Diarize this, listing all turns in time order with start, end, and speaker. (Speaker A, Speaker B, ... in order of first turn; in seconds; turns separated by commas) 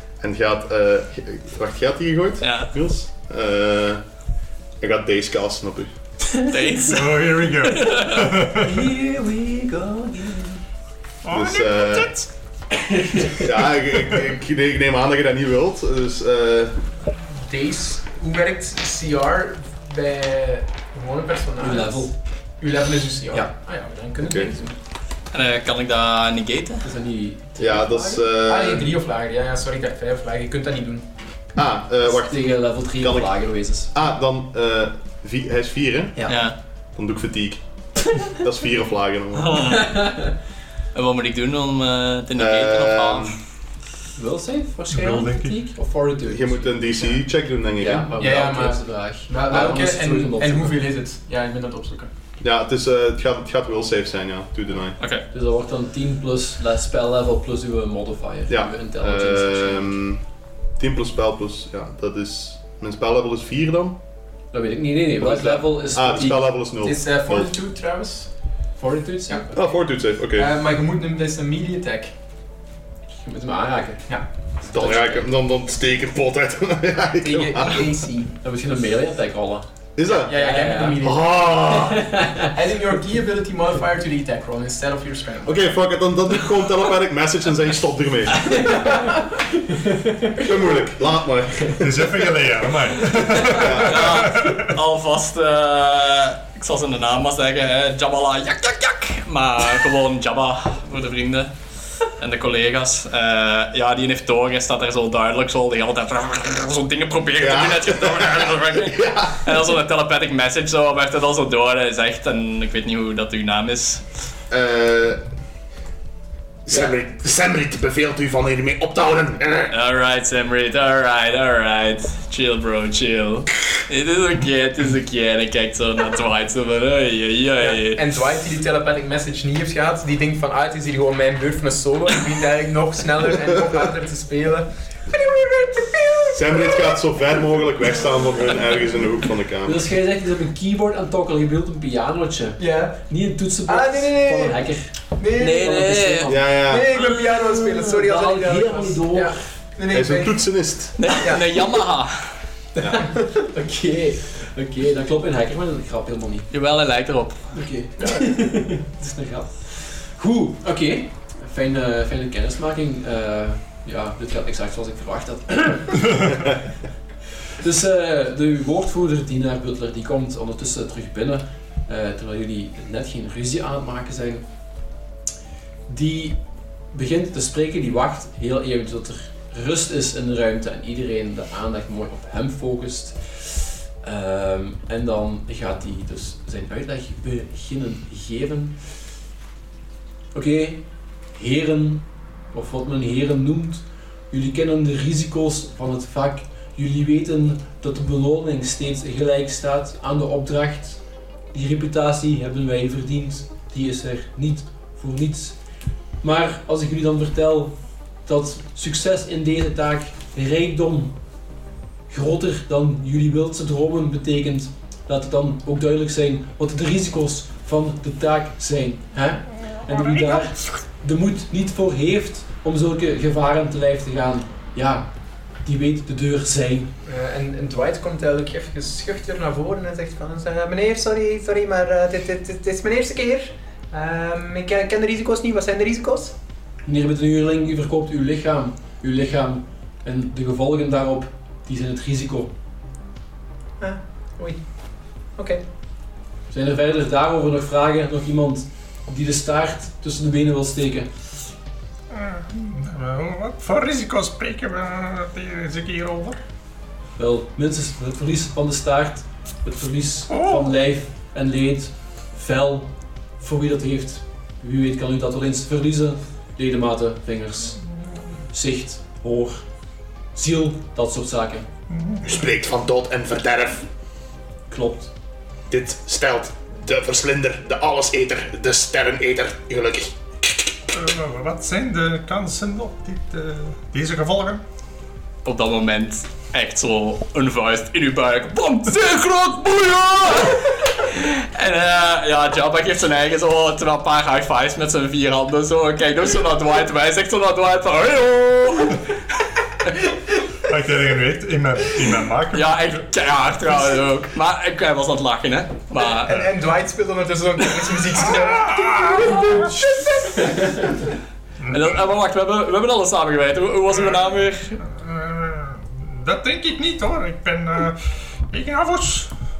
Speaker A: 0.2-4.0, Speaker B: 2.4-2.7, Speaker A: 4.8-5.9, Speaker B: 6.4-8.3, Speaker C: 6.8-8.9, Speaker D: 8.6-10.6, Speaker C: 11.2-12.3, Speaker A: 11.3-12.1, Speaker D: 12.9-13.2, Speaker A: 13.3-16.8, Speaker E: 17.3-22.1, Speaker D: 21.6-22.1, Speaker E: 22.6-24.8, Speaker A: 24.2-24.5, Speaker B: 25.3-26.9, Speaker D: 26.8-28.2, Speaker A: 27.6-28.9, Speaker E: 28.4-31.0, Speaker A: 31.5-33.3, Speaker D: 32.1-33.9, Speaker A: 33.9-36.4, Speaker B: 36.3-36.5, Speaker A: 36.9-39.8, Speaker B: 39.3-40.3, Speaker B: 40.9-43.4, Speaker A: 42.4-43.4, Speaker D: 44.1-47.2, Speaker C: 44.9-45.6, Speaker A: 46.3-48.1, Speaker D: 47.8-50.8, Speaker E: 48.1-52.1, Speaker A: 52.4-55.0, Speaker D: 55.3-59.9, Speaker A: 58.5-60.2, Speaker A: 60.8-64.0, Speaker D: 64.5-66.5, Speaker A: 65.2-67.5, Speaker E: 66.8-68.3, Speaker D: 68.8-69.6, Speaker A: 69.5-70.5, Speaker E: 70.3-72.1, Speaker D: 73.1-74.0, Speaker A: 74.6-78.0, Speaker D: 74.7-75.2, Speaker E: 77.2-78.3, Speaker D: 78.4-81.1, Speaker A: 80.0-82.2, Speaker E: 80.1-81.5, Speaker D: 81.7-82.5, Speaker E: 82.4-85.6, Speaker A: 85.4-88.8, Speaker D: 88.7-89.0, Speaker D: 89.9-90.3, Speaker A: 90.3-92.2, Speaker C: 91.8-94.7, Speaker A: 93.5-94.2, Speaker B: 93.6-101.5, Speaker B: 102.1-114.0, Speaker A: 107.4-109.5, Speaker A: 114.5-115.2, Speaker A: 116.7-119.7, Speaker B: 119.7-128.0, Speaker E: 127.6-137.0, Speaker A: 136.3-139.9, Speaker D: 139.6-146.7, Speaker E: 142.6-143.0, Speaker E: 143.7-144.6, Speaker E: 145.2-150.5, Speaker B: 145.4-146.3, Speaker A: 146.3-146.9, Speaker D: 147.5-149.4, Speaker A: 149.9-151.1, Speaker B: 151.0-152.3, Speaker E: 151.2-151.6, Speaker E: 152.9-153.2, Speaker D: 153.3-156.5, Speaker B: 156.5-157.5, Speaker D: 157.5-166.5, Speaker D: 167.6-174.4, Speaker D: 175.9-176.4, Speaker D: 176.9-188.8, Speaker D: 190.3-190.8, Speaker D: 191.3-201.0, Speaker D: 201.5-205.6, Speaker D: 206.2-207.7, Speaker D: 208.2-211.1, Speaker D: 212.1-225.1, Speaker C: 219.7-220.5, Speaker D: 225.6-226.9, Speaker E: 227.0-236.3, Speaker D: 236.8-242.5, Speaker E: 243.8-244.6, Speaker E: 245.3-245.6, Speaker D: 246.5-251.1, Speaker C: 252.1-256.4, Speaker D: 257.2-267.8, Speaker C: 260.3-260.7, Speaker D: 268.5-269.6, Speaker D: 270.3-271.7, Speaker C: 271.9-272.3, Speaker A: 272.2-273.9, Speaker D: 274.7-275.1, Speaker A: 275.7-280.1, Speaker C: 280.9-284.6, Speaker B: 285.4-299.1, Speaker C: 300.6-303.0, Speaker B: 302.5-306.3, Speaker E: 306.0-311.0, Speaker C: 306.3-306.5, Speaker C: 308.2-309.8, Speaker C: 311.6-312.0, Speaker B: 311.7-314.8, Speaker C: 314.8-319.3